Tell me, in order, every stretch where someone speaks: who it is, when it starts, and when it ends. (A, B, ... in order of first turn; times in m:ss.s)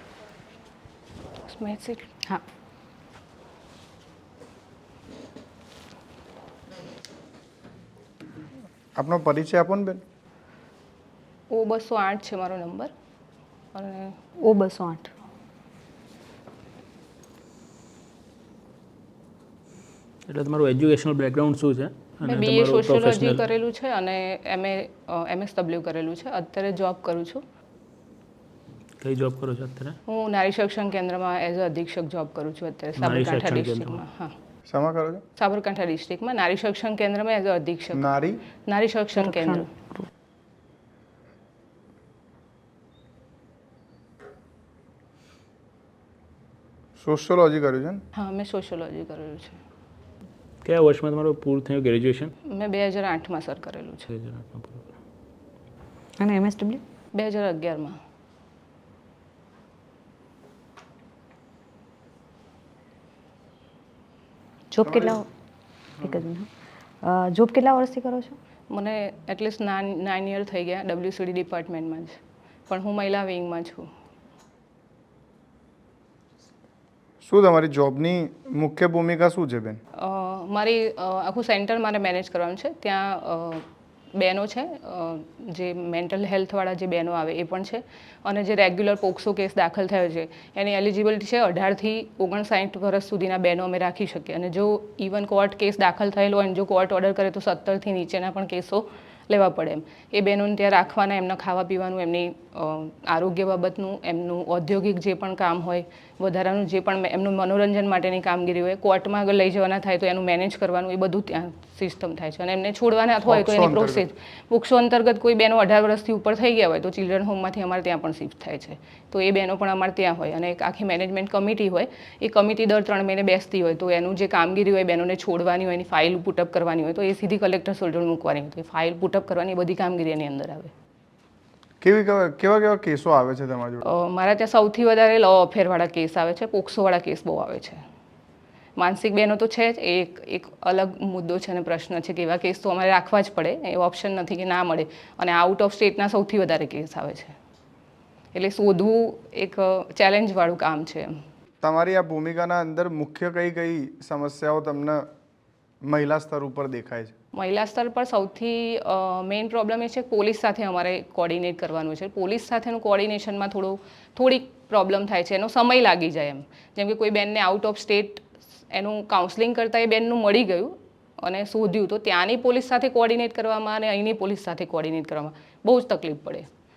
0:01.4-0:02.1 A
0:09.0-0:10.0 B
0:11.5-0:12.9 A
0:13.7-0:14.1 A
0:14.4-0:15.1 C
0:20.3-0:23.4 D
0:22.2-0:27.4 A
0:29.0-0:30.0 D
0:30.1-0:34.3 A
0:33.0-0:34.0 D
0:34.7-0:35.2 B
0:35.4-0:38.0 A
0:37.9-0:38.4 B
0:38.7-0:39.7 A
0:39.2-0:40.1 C
0:47.0-0:48.0 B
0:48.2-0:49.6 A
0:50.6-0:52.3 D
0:52.5-0:54.1 A
0:54.1-0:54.9 D
0:56.2-0:56.8 C
0:57.1-0:58.0 A
1:04.7-1:05.3 C
1:06.0-1:06.5 C
1:07.0-1:08.3 C
1:08.7-1:13.9 A
1:17.2-1:19.8 B
1:20.0-2:10.7 A
1:53.3-1:54.0 B
2:11.8-2:13.8 B
2:13.8-2:17.8 A
2:18.8-2:27.3 A
2:28.3-2:31.2 A
2:31.6-2:35.0 B
2:35.8-2:37.1 B
2:37.3-2:56.5 A